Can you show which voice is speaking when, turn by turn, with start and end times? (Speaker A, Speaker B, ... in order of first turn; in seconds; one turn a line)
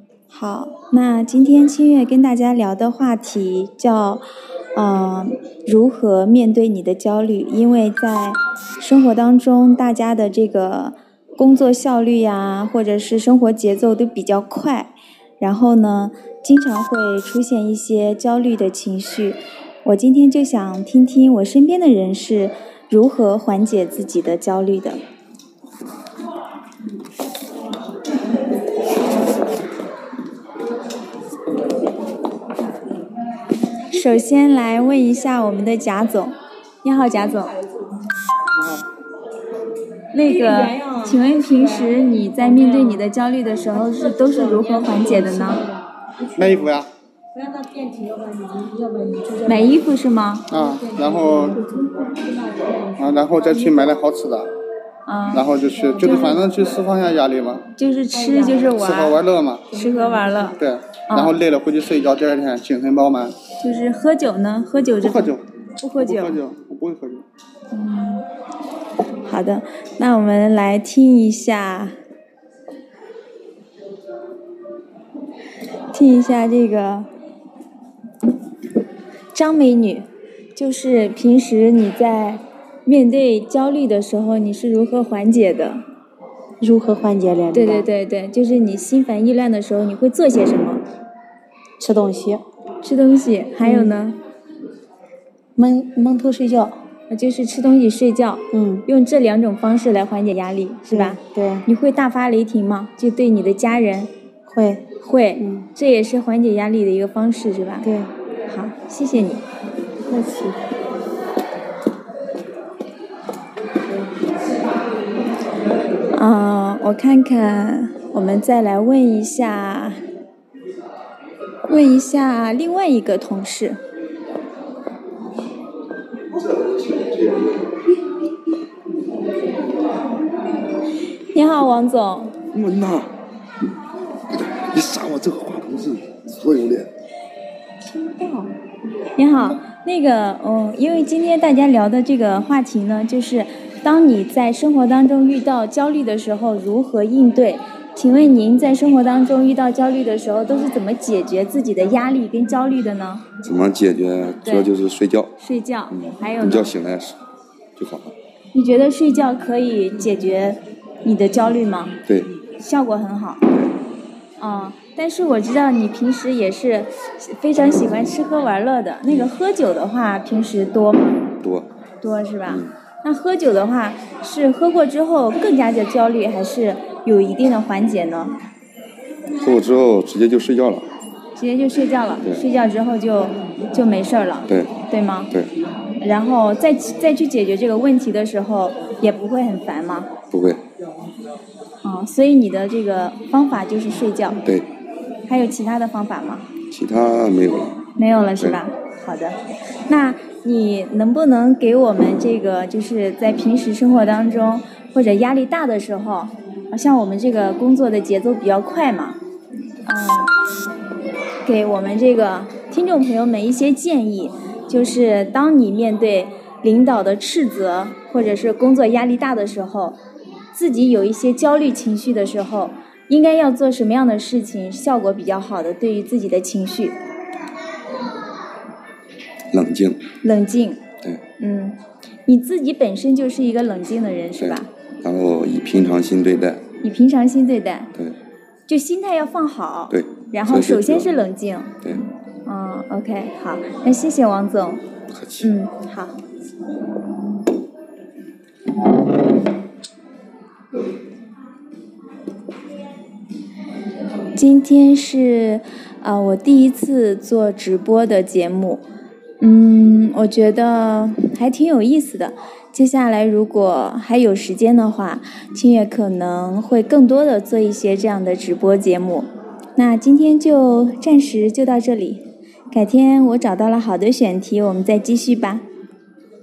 Speaker A: 0.3-4.2
Speaker A: 4.7-25.0
Speaker A: 33.9-37.6
Speaker B: 38.5-38.8
Speaker A: 40.1-45.6
Speaker C: 40.4-41.1
Speaker C: 42.6-43.0
Speaker C: 43.8-46.6
Speaker B: 46.3-46.9
Speaker C: 47.3-49.7
Speaker A: 49.4-50.5
Speaker B: 50.5-51.6
Speaker C: 50.8-53.0
Speaker B: 53.0-54.5
Speaker A: 55.0-55.5
Speaker B: 55.3-57.6
Speaker A: 57.8-59.2
Speaker B: 58.7-59.6
Speaker A: 59.7-61.4
Speaker B: 60.6-63.3
Speaker A: 63.6-66.4
Speaker B: 65.0-65.4
Speaker B: 66.0-67.2
Speaker A: 67.7-68.2
Speaker A: 69.2-72.0
Speaker A: 75.9-77.1
Speaker A: 79.3-85.8
Speaker C: 86.6-87.9
Speaker A: 87.5-90.8
Speaker C: 91.8-92.4
Speaker A: 92.8-94.2
Speaker C: 93.6-93.9
Speaker C: 95.5-96.8
Speaker A: 97.1-104.1
Speaker C: 98.5-98.8
Speaker C: 100.9-101.6
Speaker C: 104.5-104.8
Speaker A: 105.0-107.9
Speaker C: 105.4-105.6
Speaker C: 107.8-108.1
Speaker A: 108.5-109.4
Speaker C: 110.1-110.6
Speaker A: 116.1-120.0
Speaker A: 121.7-123.8
Speaker D: 126.3-127.8
Speaker A: 131.3-132.3
Speaker D: 132.5-133.1
Speaker D: 134.3-136.9
Speaker C: 137.8-138.5
Speaker A: 139.2-153.3
Speaker D: 153.4-155.3
Speaker A: 154.4-154.7
Speaker A: 155.4-156.8
Speaker D: 155.9-157.2
Speaker D: 157.8-158.1
Speaker A: 158.5-162.0
Speaker D: 162.1-162.3
Speaker A: 162.6-163.5
Speaker A: 164.4-171.2
Speaker D: 171.4-171.7
Speaker A: 172.0-178.4
Speaker D: 172.4-172.7
Speaker D: 179.4-180.9
Speaker A: 181.3-185.3
Speaker D: 184.5-184.7
Speaker A: 186.0-190.1
Speaker D: 190.3-190.6
Speaker A: 191.8-194.4
Speaker A: 195.2-196.5
Speaker D: 196.7-197.8
Speaker A: 197.9-209.2
Speaker A: 209.8-210.3
Speaker A: 211.4-220.0
Speaker A: 220.5-227.0
Speaker D: 229.5-230.0
Speaker A: 230.2-230.8
Speaker A: 231.4-234.7
Speaker D: 234.4-236.6
Speaker A: 236.8-237.9
Speaker A: 238.7-241.7
Speaker D: 239.9-241.1
Speaker A: 242.4-244.8
Speaker D: 245.1-245.5
Speaker A: 245.4-246.2
Speaker A: 254.3-258.8
Speaker A: 259.4-275.6